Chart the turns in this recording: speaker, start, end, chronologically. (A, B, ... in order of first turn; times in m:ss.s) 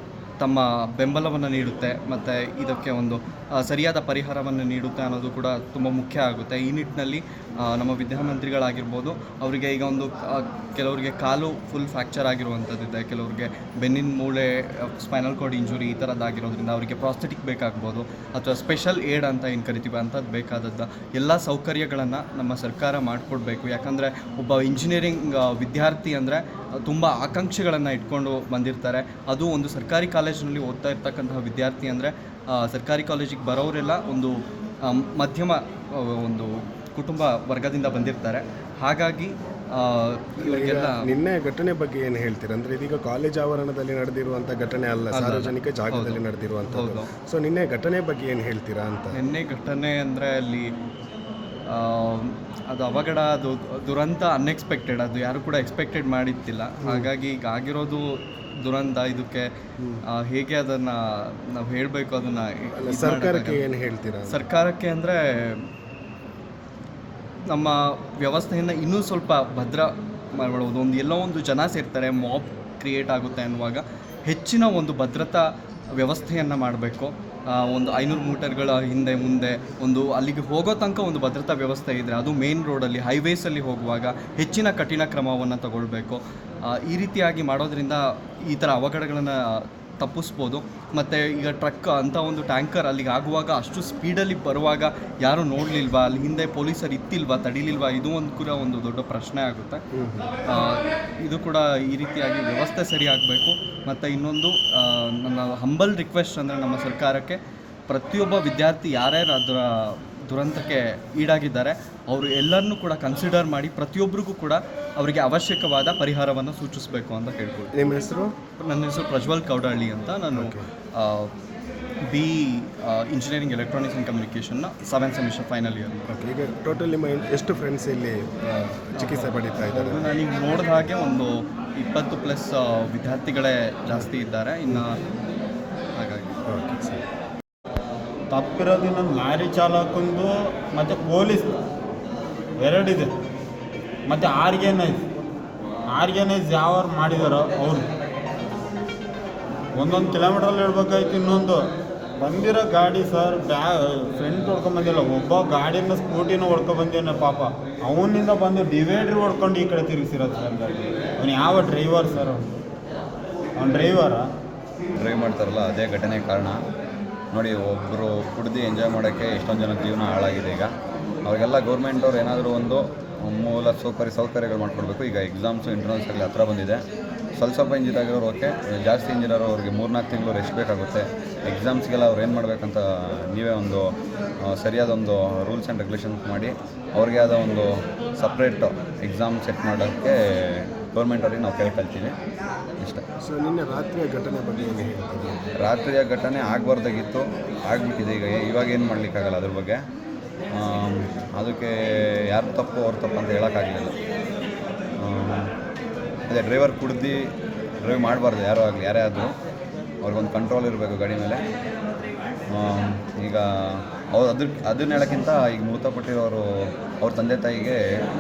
0:00.4-0:41.0 A
0:40.4-0:49.2 B
0:45.1-0:47.1 A
0:49.1-0:50.7 A
0:51.7-0:59.5 A
1:00.1-1:03.6 A
1:02.8-1:04.4 B
1:04.3-1:05.7 A
1:07.5-1:39.8 A
1:39.9-1:40.3 B
1:40.5-1:57.7 A
1:57.8-1:58.3 B
1:58.6-2:01.3 A
2:00.3-2:00.7 B
2:02.1-2:06.0 A
2:06.1-2:10.1 B
2:09.0-2:15.0 A
2:16.0-2:16.3 A
2:16.5-2:17.0 B
2:18.3-2:21.5 C
2:22.6-2:23.1 C
2:24.1-2:25.1 C
2:25.9-2:27.9 C
2:29.8-2:31.7 C
2:32.2-2:42.4 C
2:43.6-2:44.3 C
2:45.0-2:46.6 D
2:47.3-2:50.7 D
2:51.2-3:12.2 D
3:13.2-3:15.5 B
3:15.6-3:19.8 D
3:20.5-3:24.0 D
3:25.0-3:25.5 D
3:26.3-3:27.3 D
3:27.8-3:29.3 D
3:30.0-3:31.4 D
3:32.5-3:37.8 D